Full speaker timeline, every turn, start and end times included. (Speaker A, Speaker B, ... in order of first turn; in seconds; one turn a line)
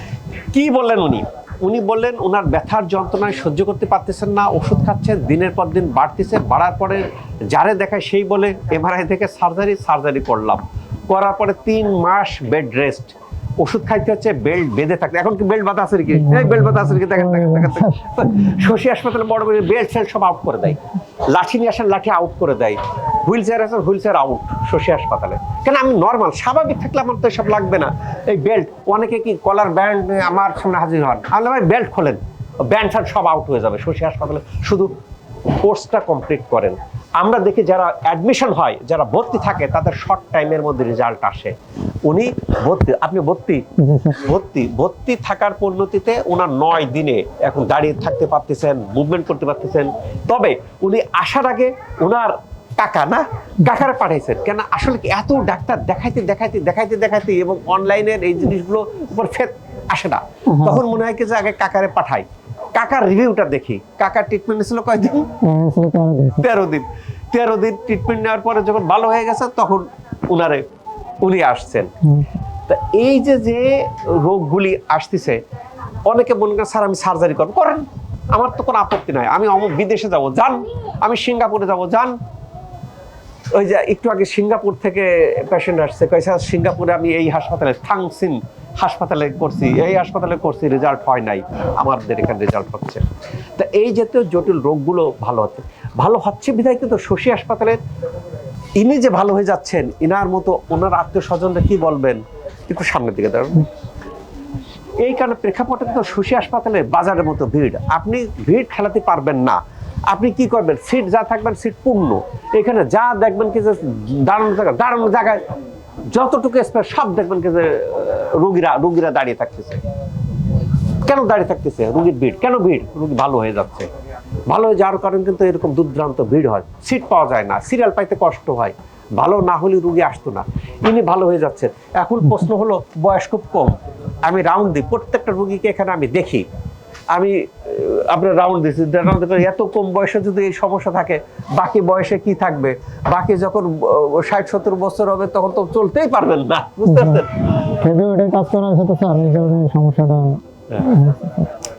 Speaker A: 0.5-34.9
Speaker B: 16.1-18.1
Speaker A: 35.6-65.3
Speaker B: 43.8-44.2
Speaker B: 60.5-60.9
Speaker B: 65.4-66.5
Speaker A: 66.4-70.7
Speaker A: 71.2-71.9
Speaker B: 72.0-72.3
Speaker A: 72.7-75.4
Speaker A: 76.1-82.2
Speaker A: 83.5-97.8
Speaker A: 98.8-103.7
Speaker A: 105.0-115.4
Speaker A: 116.1-119.8
Speaker A: 121.0-123.9
Speaker A: 124.5-136.5
Speaker A: 137.1-147.4
Speaker B: 146.8-151.5